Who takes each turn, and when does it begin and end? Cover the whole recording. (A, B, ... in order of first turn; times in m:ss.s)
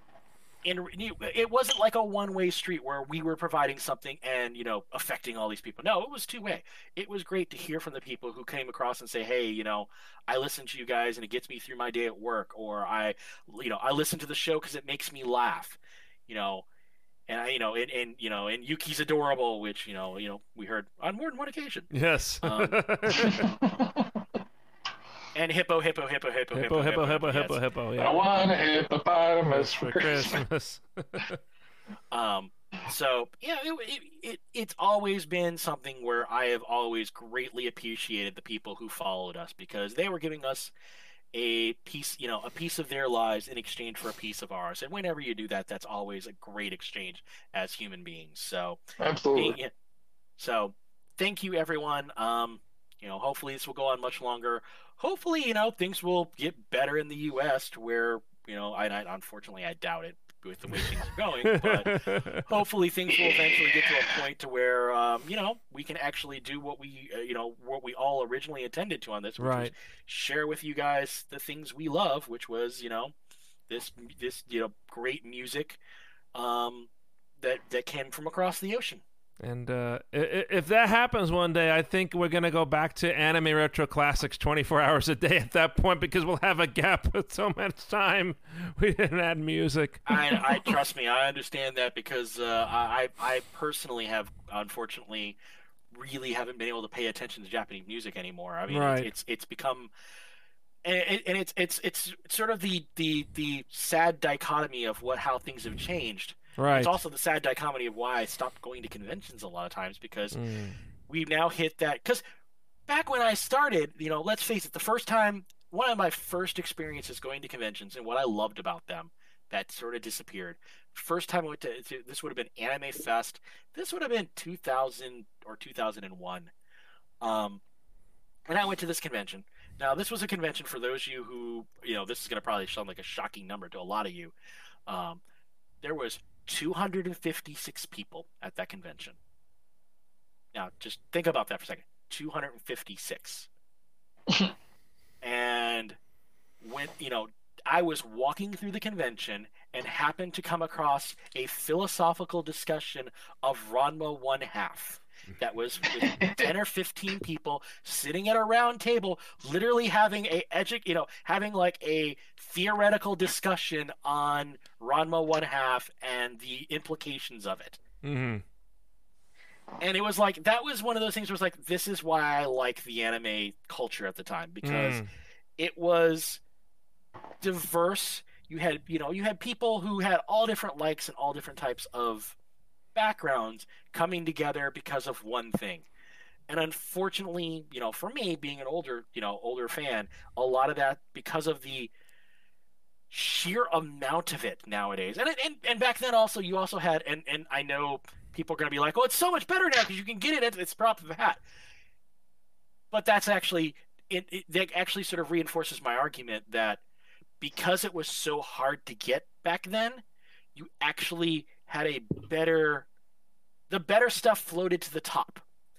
0:00.6-0:16.6 A
0:17.3-0:21.9 A
0:21.9-0:23.5 B
0:22.4-0:23.4 A
0:23.2-0:24.2 C
0:25.3-0:27.6 A
0:26.5-0:28.8 B
0:28.0-0:30.4 C
0:29.5-0:31.4 B
0:32.1-0:40.7 A
0:41.3-0:48.8 A
0:49.0-0:49.6 C
0:49.3-0:49.7 A
0:50.4-1:13.1 A
1:01.4-1:02.4 B
1:03.3-1:03.8 C
1:09.4-1:09.7 B
1:13.7-1:15.8 A
1:16.3-1:16.9 A
1:17.4-1:19.0 A
1:19.4-1:30.4 B
1:30.1-1:35.4 A
1:35.9-1:39.9 A
1:38.7-1:39.1 B
1:40.8-1:50.4 A
1:46.6-1:46.9 B
1:50.3-1:50.8 B
1:51.1-1:52.2 A
1:52.9-2:06.5 A
2:07.2-2:07.6 A
2:08.5-2:14.3 A
2:14.9-2:15.2 A
2:15.8-2:19.2 A
2:20.5-2:23.5 A
2:25.2-2:26.0 A
2:26.6-2:47.8 A
2:36.0-2:36.4 C
2:48.0-2:48.4 B
2:49.8-2:55.0 A
2:54.6-2:55.1 B
2:55.6-2:56.4 A
2:57.4-3:02.3 A
3:02.9-3:05.9 A
3:06.5-3:11.9 A
3:13.1-3:21.4 A
3:22.9-3:26.8 A
3:27.4-3:30.0 A
3:30.5-3:32.9 A
3:33.7-3:35.4 A